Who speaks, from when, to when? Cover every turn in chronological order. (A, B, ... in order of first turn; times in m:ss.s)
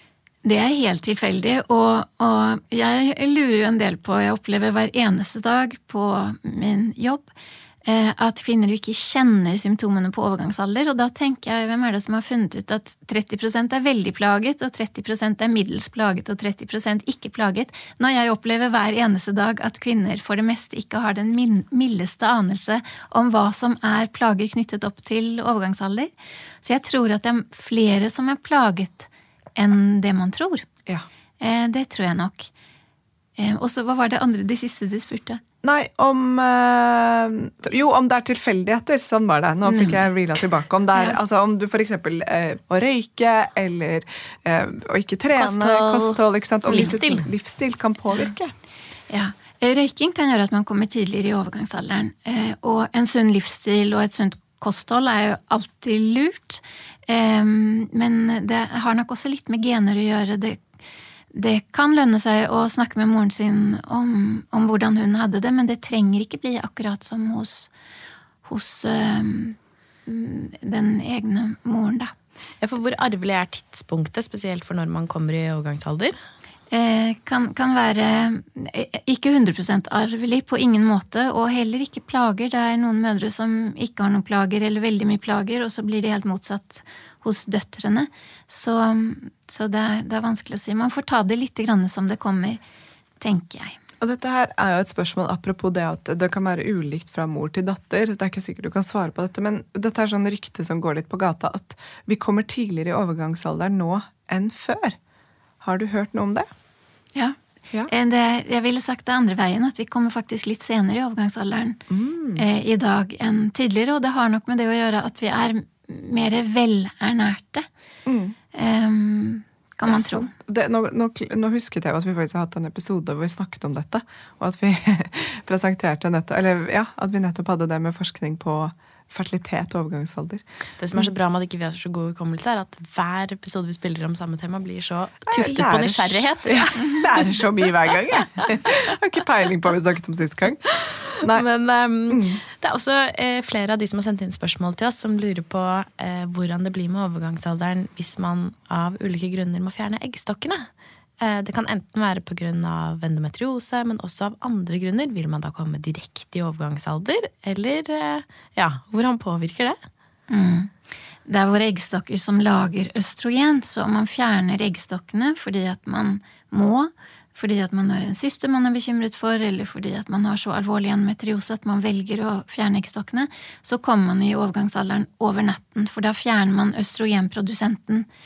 0:00.4-0:07.3 A
0:07.8-0:30.7 A
0:31.4-0:32.5 A
0:33.4-0:35.4 A
0:35.6-0:48.5 B
0:39.7-0:40.0 A
0:45.4-0:47.3 C
0:49.1-1:00.6 A
1:01.3-1:07.7 A
1:08.4-1:12.1 A
1:12.6-1:16.2 C
1:16.7-1:32.6 A
1:33.2-1:33.8 A
1:34.0-1:45.0 B
1:45.6-1:46.5 B
1:47.9-1:51.8 A
1:51.9-1:52.4 B
1:52.4-1:57.7 A
1:58.1-1:58.4 B
1:58.5-2:00.3 A
1:59.9-2:10.4 B
2:10.8-2:17.4 C
2:15.3-2:20.7 B
2:20.8-2:30.7 C
2:21.2-2:21.5 B
2:22.1-2:22.4 B
2:31.2-2:39.8 C
2:40.3-2:40.7 A
2:41.3-2:58.1 A